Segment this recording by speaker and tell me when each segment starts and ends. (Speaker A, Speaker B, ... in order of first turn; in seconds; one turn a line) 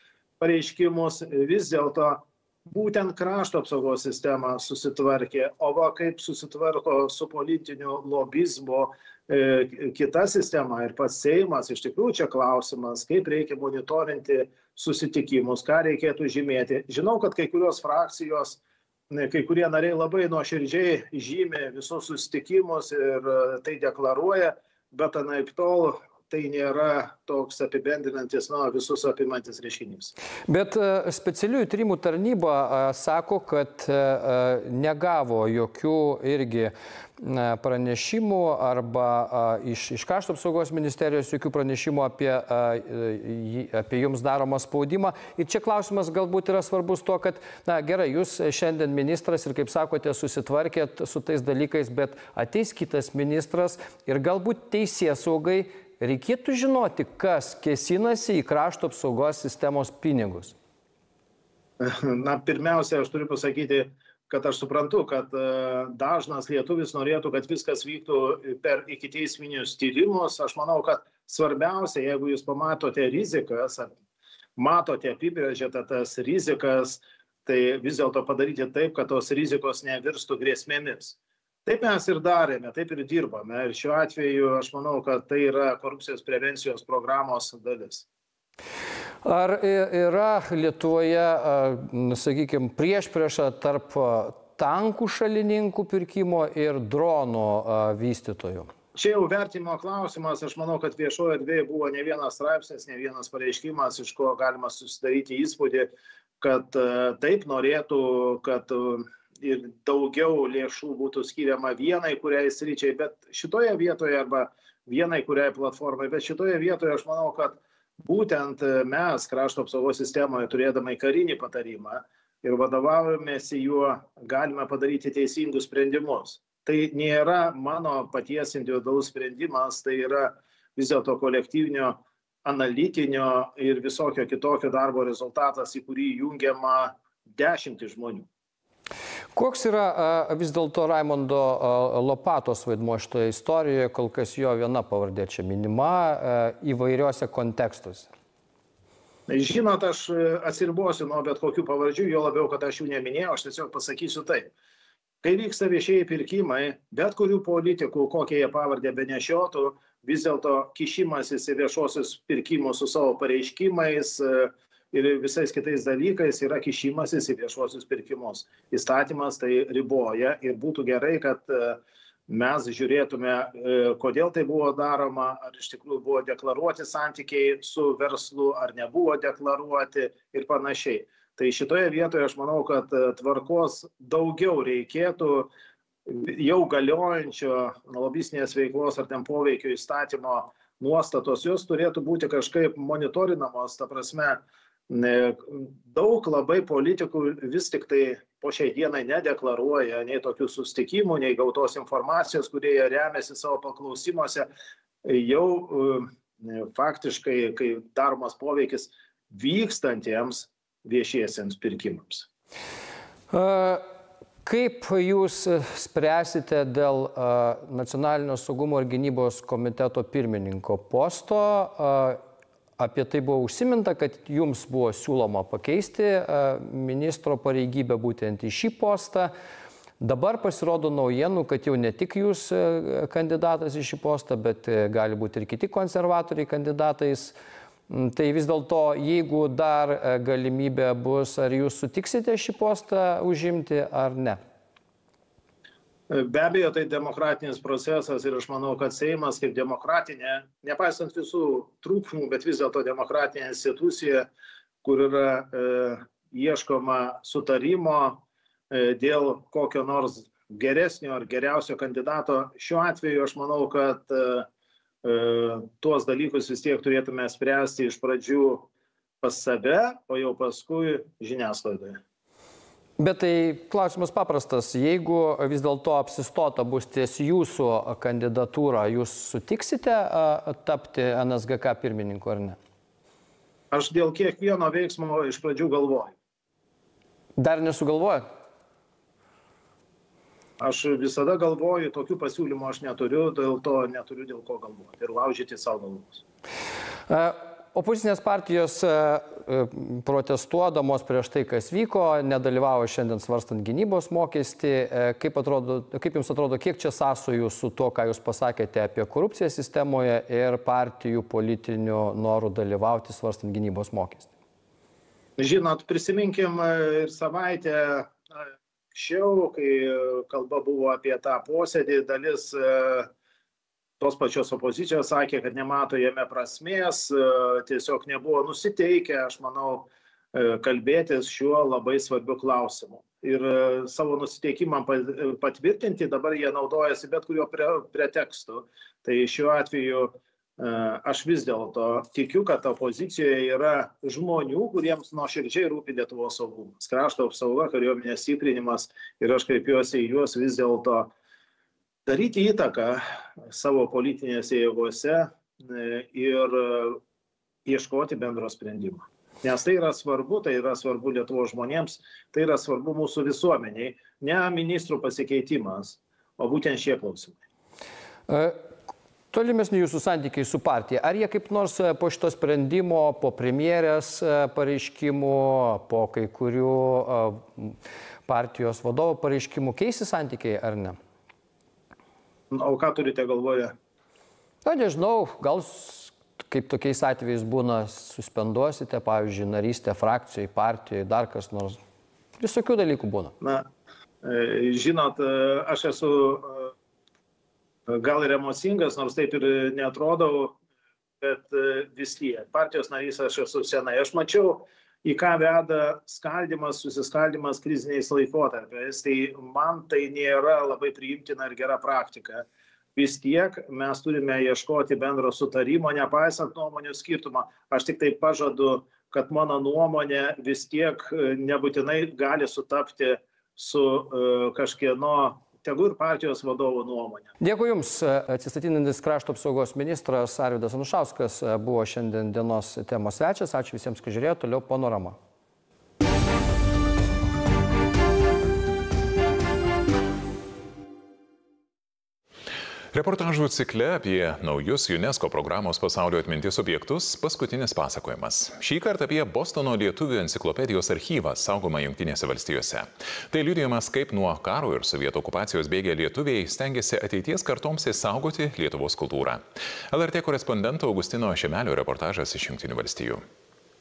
Speaker A: 0.4-18.6
Speaker A: 19.1-30.1
Speaker B: 30.5-60.5
Speaker A: 61.8-73.9
Speaker A: 74.6-88.0
Speaker B: 89.2-98.7
Speaker A: 99.0-105.9
Speaker A: 106.4-138.3
Speaker B: 139.3-148.1
Speaker A: 149.3-154.5
Speaker A: 155.2-185.5
Speaker A: 186.1-204.5
Speaker A: 205.1-212.3
Speaker B: 213.3-213.9
Speaker B: 214.4-222.2
Speaker B: 222.8-229.3
Speaker B: 230.0-237.3
Speaker B: 237.9-244.4
Speaker A: 246.1-254.3
Speaker A: 254.8-264.5
Speaker A: 265.0-268.7
Speaker A: 269.2-272.0
Speaker B: 273.0-282.6
Speaker A: 283.7-286.1
Speaker B: 287.4-288.3
Speaker A: 290.6-296.2
Speaker B: 297.1-314.3
Speaker A: 315.4-318.2
Speaker A: 318.9-323.1
Speaker A: 324.0-351.1
Speaker A: 352.1-357.0
Speaker A: 357.7-367.4
Speaker B: 368.3-368.7
Speaker B: 369.3-381.0
Speaker A: 382.5-383.8
Speaker B: 384.6-391.8
Speaker B: 392.4-393.3
Speaker A: 393.4-393.7
Speaker A: 394.2-396.7
Speaker A: 397.9-400.6
Speaker A: 401.2-427.3
Speaker B: 427.4-435.2
Speaker C: 442.9-463.2